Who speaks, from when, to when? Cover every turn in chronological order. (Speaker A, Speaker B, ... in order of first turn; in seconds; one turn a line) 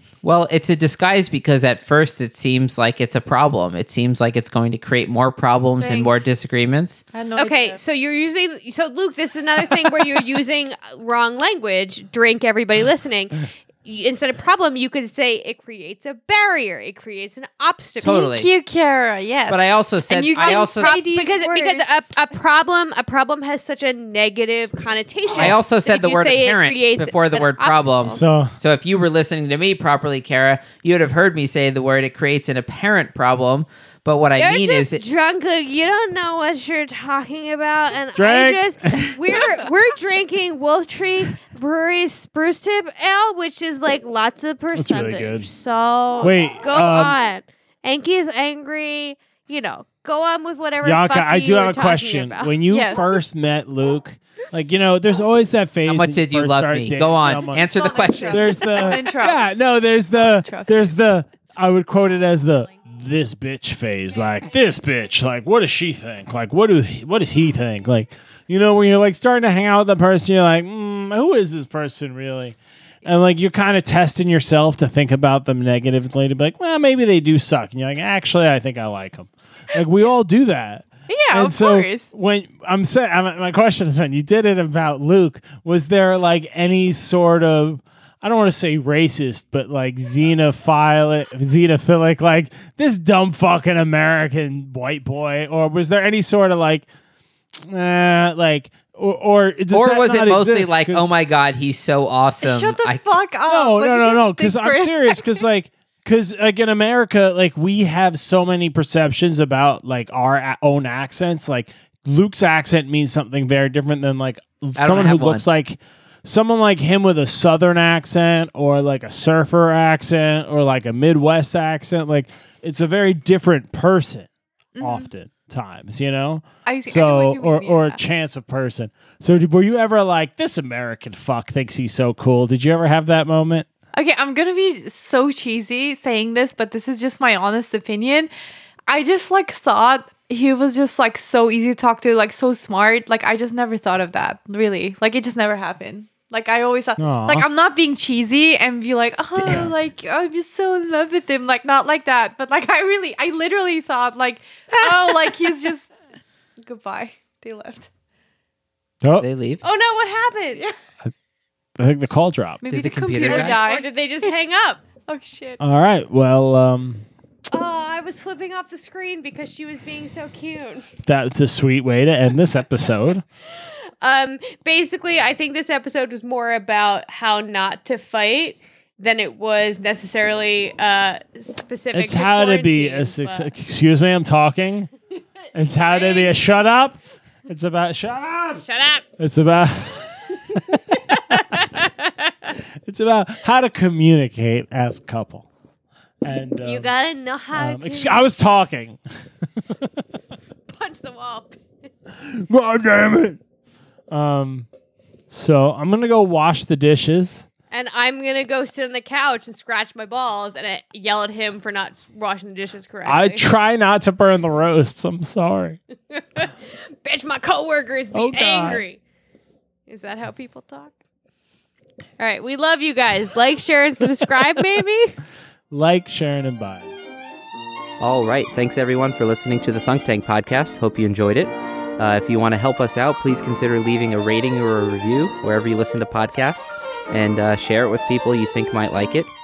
Speaker A: 0.2-7.0
Speaker B: 5.8-6.2
Speaker B: 7.1-7.8
Speaker C: 7.4-18.3
Speaker A: 18.0-18.5
Speaker B: 18.0-21.9
Speaker A: 19.5-21.0
Speaker C: 20.4-28.2
Speaker A: 25.4-35.0
Speaker D: 28.1-28.5
Speaker C: 34.4-53.0
Speaker D: 38.1-39.1
Speaker D: 44.7-45.5
Speaker D: 46.2-47.1
Speaker D: 50.8-57.7
Speaker B: 52.7-53.0
Speaker A: 55.9-58.6
Speaker C: 57.4-59.0
Speaker B: 57.5-59.5
Speaker D: 58.3-96.8
Speaker B: 60.2-60.8
Speaker B: 81.1-82.1
Speaker D: 97.6-101.0
Speaker A: 99.7-103.0
Speaker B: 102.4-105.4
Speaker D: 103.5-133.7
Speaker A: 114.8-115.4
Speaker B: 124.8-125.1
Speaker B: 126.6-128.0
Speaker B: 133.9-138.3
Speaker B: 138.9-155.9
Speaker D: 147.0-147.5
Speaker B: 156.6-157.9
Speaker D: 159.0-159.3
Speaker A: 159.2-159.6
Speaker C: 159.6-160.7
Speaker D: 161.8-162.6
Speaker B: 162.6-164.3
Speaker A: 162.7-163.6
Speaker C: 163.2-164.8
Speaker B: 165.1-165.6
Speaker D: 165.6-167.1
Speaker C: 167.5-170.9
Speaker D: 171.1-173.2
Speaker C: 173.6-183.5
Speaker D: 181.9-184.9
Speaker D: 185.5-188.6
Speaker C: 185.8-186.3
Speaker C: 188.6-189.0
Speaker D: 189.2-191.7
Speaker C: 191.3-191.9
Speaker D: 192.8-195.5
Speaker D: 196.2-196.9
Speaker C: 196.6-198.3
Speaker D: 197.5-199.0
Speaker C: 200.7-201.6
Speaker D: 202.2-203.4
Speaker D: 204.1-204.7
Speaker D: 205.3-207.4
Speaker C: 207.7-213.5
Speaker D: 213.1-215.8
Speaker C: 216.1-219.0
Speaker D: 218.1-218.8
Speaker C: 219.9-220.9
Speaker C: 222.2-225.2
Speaker D: 225.7-226.9
Speaker E: 228.0-239.3